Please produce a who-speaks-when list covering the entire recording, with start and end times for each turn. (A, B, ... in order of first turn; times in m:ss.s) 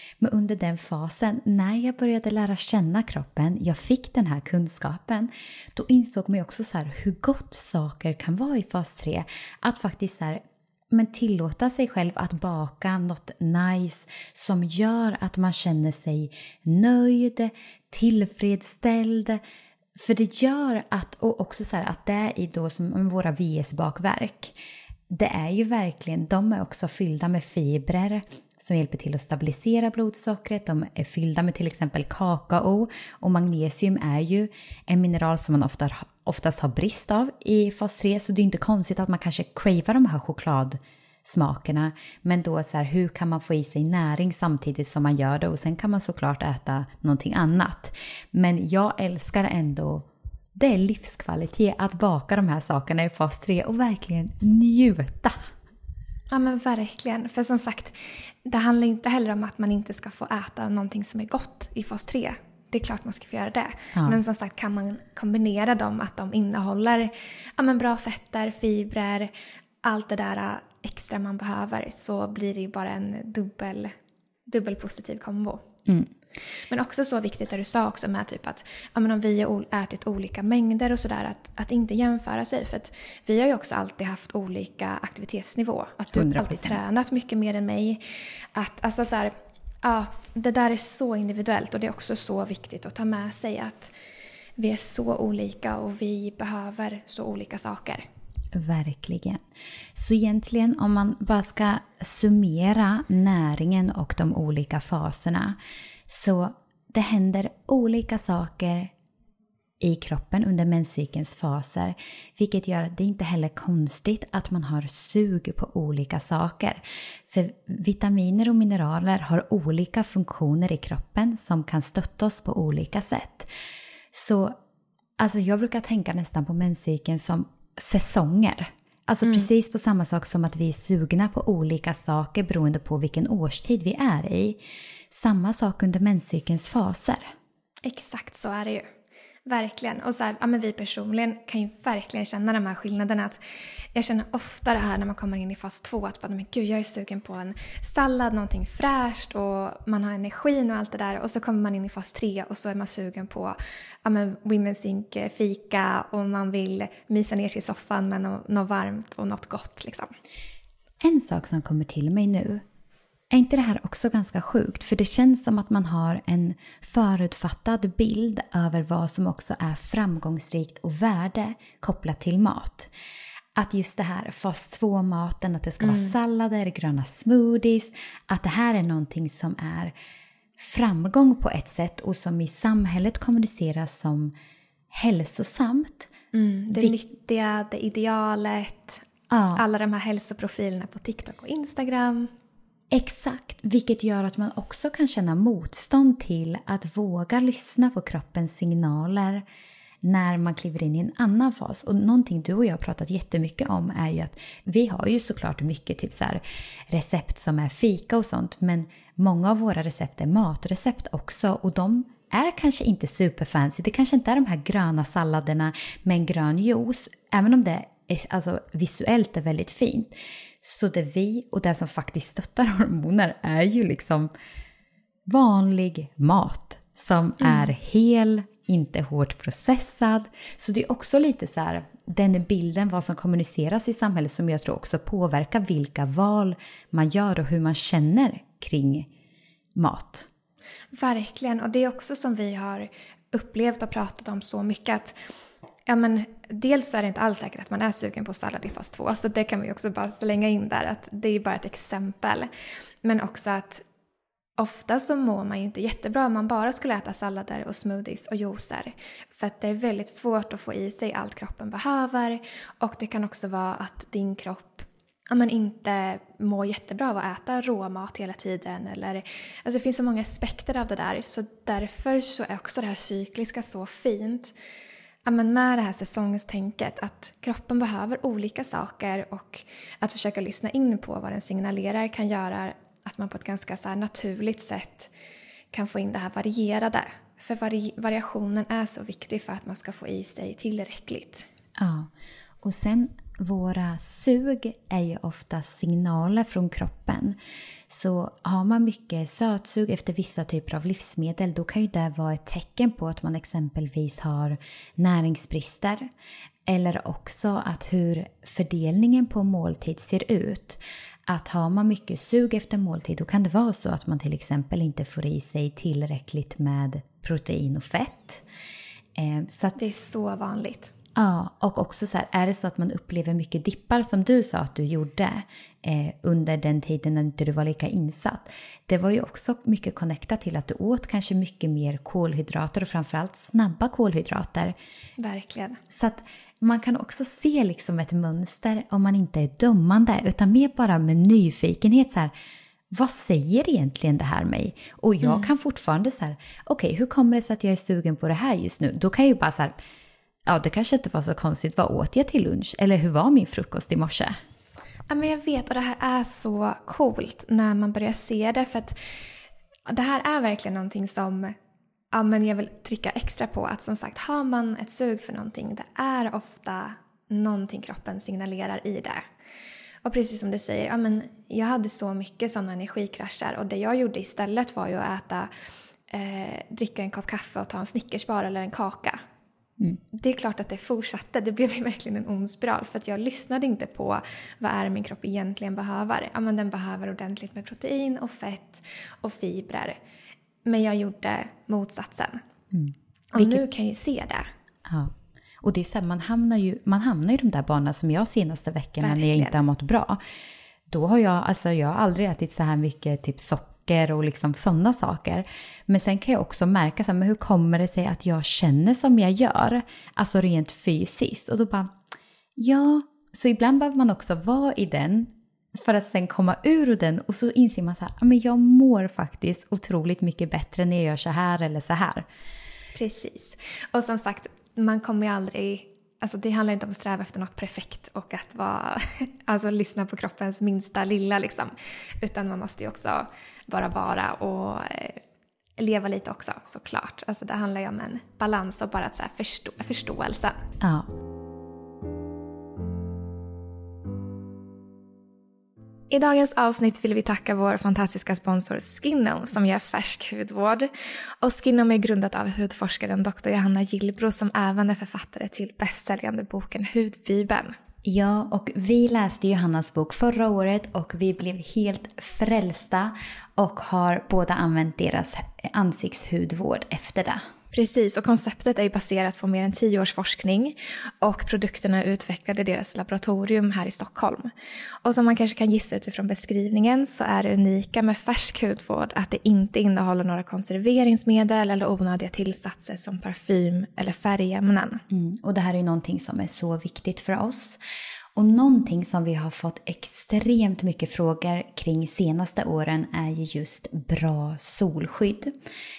0:00.2-0:19.4 A
0:20.0-0:24.5 A
0:25.1-0:55.5 A
0:56.3-1:09.3 B
1:09.8-1:13.9 B
1:14.5-1:15.7 B
1:16.7-1:28.0 B
1:26.1-1:26.8 A
1:28.5-1:33.9 B
1:34.6-1:38.0 B
1:38.5-1:39.4 A
1:39.9-1:45.6 A
1:46.1-1:48.9 A
1:49.8-2:03.5 A
2:04.1-2:04.6 A
2:05.2-2:14.6 A
2:15.1-2:17.3 A
2:17.8-2:18.9 B
2:19.4-2:23.4 B
2:23.9-2:40.1 B
2:41.0-2:42.6 A
2:43.3-2:52.9 A
2:53.5-2:59.9 A
2:55.8-2:56.1 B
3:00.6-3:04.3 A
3:04.9-3:06.1 A
3:06.3-3:12.3 B
3:09.3-3:09.6 A
3:12.9-3:19.4 A
3:20.0-3:44.3 A
3:45.3-3:59.1 A
3:47.4-3:47.7 B
3:59.8-4:00.3 A
4:00.9-4:05.2 B
4:05.9-4:12.5 B
4:13.0-4:13.8 B
4:14.6-4:34.5 B
4:35.2-4:45.1 B
4:45.7-4:51.4 B
4:51.8-4:52.1 A
4:52.6-4:57.4 A
4:57.9-5:06.1 A
5:06.7-5:18.4 A
5:19.1-5:19.8 A
5:19.8-5:20.9 B
5:21.1-5:34.7 A
5:35.2-5:35.8 B
5:35.9-5:42.3 A
5:42.9-5:49.8 A
5:45.2-5:45.5 B
5:50.5-5:54.4 A
5:55.1-5:59.0 B
5:59.9-6:01.5 B
6:02.1-6:09.2 B
6:10.0-6:15.5 B
6:16.1-6:19.2 B
6:20.1-6:30.0 B
6:30.6-6:32.4 B
6:32.7-6:33.6 A
6:33.3-6:34.5 B
6:34.8-6:40.2 A
6:39.0-6:39.6 B
6:40.9-6:51.9 A
6:52.6-7:02.2 A
7:02.9-7:15.2 B
7:15.8-7:20.6 B
7:20.8-7:21.1 A
7:26.1-7:30.9 B
7:31.4-7:37.8 B
7:38.0-7:47.4 A
7:47.7-7:54.5 B
7:55.0-8:05.0 B
8:05.1-8:07.8 A
8:08.3-8:15.5 A